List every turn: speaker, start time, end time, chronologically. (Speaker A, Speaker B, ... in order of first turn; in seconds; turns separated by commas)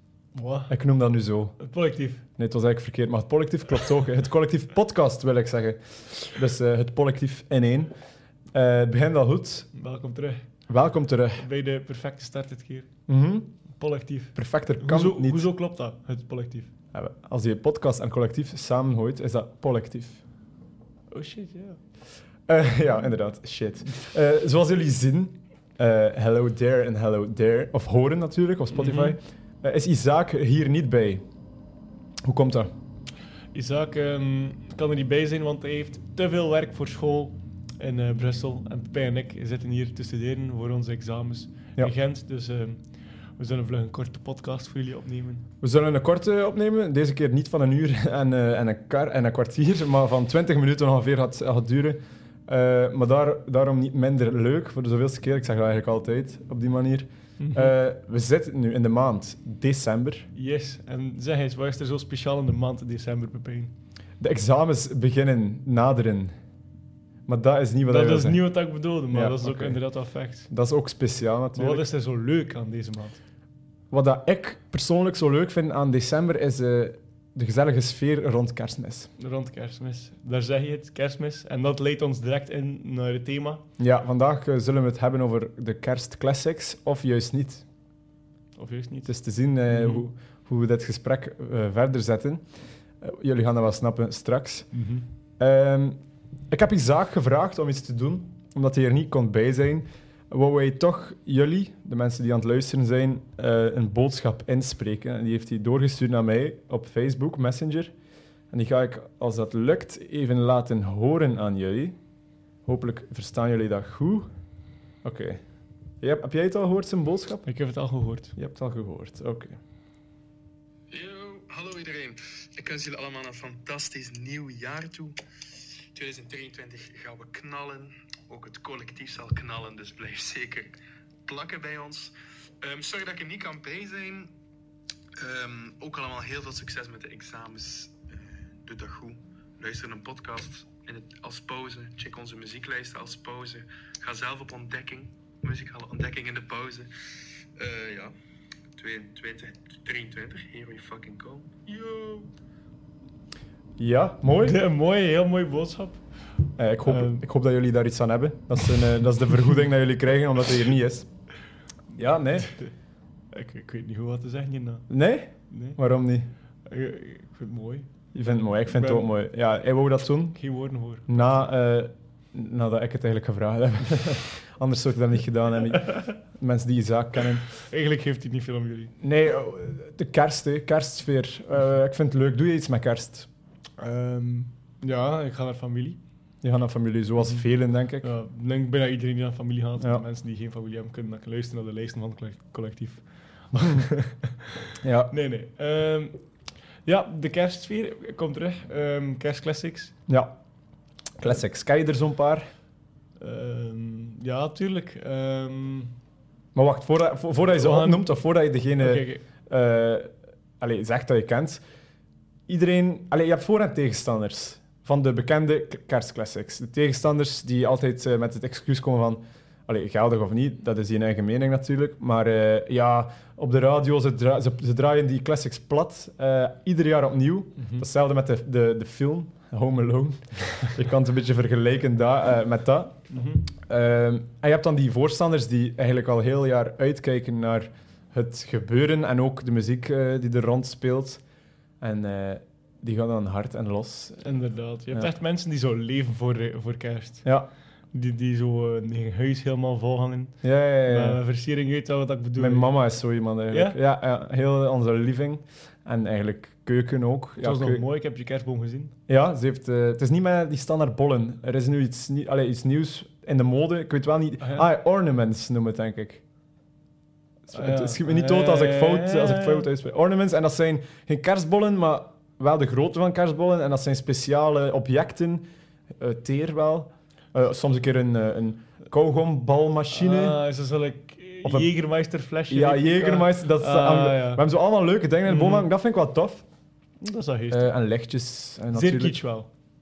Speaker A: 0.3-0.7, Speaker B: 0.7-1.6, Speaker A: 1.6-2.2, Speaker B: 2.4-7.9, Speaker B: 8.5-9.7, Speaker A: 9.7-10.4, Speaker B: 10.7-11.4, Speaker A: 11.4-12.9, Speaker B: 13.1-13.5, Speaker A: 13.7-16.7, Speaker B: 14.3-15.5, Speaker B: 16.9-20.2, Speaker A: 21.1-21.8, Speaker B: 22.5-31.2, Speaker A: 28.7-29.1, Speaker B: 32.2-32.7, Speaker A: 33.5-42.8, Speaker A: 43.4-45.5, Speaker B: 45.6-60.3, Speaker A: 57.4-57.7, Speaker A: 60.3-63.7, Speaker B: 64.2-66.3, Speaker B: 67.3-68.4, Speaker A: 67.8-70.5, Speaker B: 69.1-69.8, Speaker B: 70.5-71.8, Speaker A: 71.5-73.2, Speaker B: 73.9-79.1, Speaker A: 79.2-83.6, Speaker B: 83.8-87.6, Speaker A: 88.5-89.1, Speaker B: 89.0-92.4, Speaker A: 89.7-90.0, Speaker B: 93.0-94.7, Speaker A: 94.7-95.0, Speaker B: 95.4-96.0, Speaker B: 96.5-107.9, Speaker B: 108.5-111.9, Speaker B: 112.6-114.3, Speaker B: 115.0-115.4, Speaker B: 116.0-117.5, Speaker A: 117.5-118.3, Speaker B: 118.3-119.6, Speaker C: 120.9-125.2, Speaker C: 125.8-130.7, Speaker C: 131.2-134.3, Speaker C: 135.2-146.9, Speaker C: 147.6-148.1, Speaker C: 148.8-152.3, Speaker B: 153.8-154.6, Speaker A: 154.3-156.0, Speaker B: 156.6-161.1, Speaker A: 156.8-157.2, Speaker B: 161.9-162.5, Speaker A: 162.3-162.7, Speaker A: 163.3-164.9, Speaker B: 164.9-166.3, Speaker A: 165.5-165.8, Speaker A: 166.7-167.9, Speaker B: 168.1-170.4, Speaker A: 168.7-169.1, Speaker A: 170.3-171.5, Speaker B: 171.1-177.4, Speaker A: 177.5-178.9, Speaker B: 179.0-183.3, Speaker A: 183.8-186.0, Speaker B: 186.4-188.1, Speaker A: 188.0-196.2, Speaker B: 193.5-193.8, Speaker B: 194.8-195.1, Speaker A: 196.8-199.9, Speaker B: 200.1-200.3, Speaker B: 201.2-202.5, Speaker A: 203.2-205.9, Speaker B: 206.5-211.6, Speaker A: 207.5-208.1, Speaker A: 208.8-209.2, Speaker B: 212.5-233.0, Speaker A: 227.6-227.8, Speaker A: 233.1-233.4, Speaker B: 233.6-241.2, Speaker B: 241.8-244.2, Speaker A: 244.2-247.3, Speaker A: 247.9-252.7, Speaker B: 250.4-251.2, Speaker B: 252.4-257.8, Speaker A: 253.5-253.8, Speaker A: 257.4-258.9, Speaker B: 259.1-266.2, Speaker A: 264.4-264.6, Speaker B: 267.5-275.4, Speaker A: 267.5-269.7, Speaker B: 276.0-280.4, Speaker A: 279.9-284.4, Speaker B: 282.5-286.4, Speaker A: 285.2-285.7, Speaker A: 287.0-287.7, Speaker B: 287.5-289.2, Speaker A: 288.7-289.5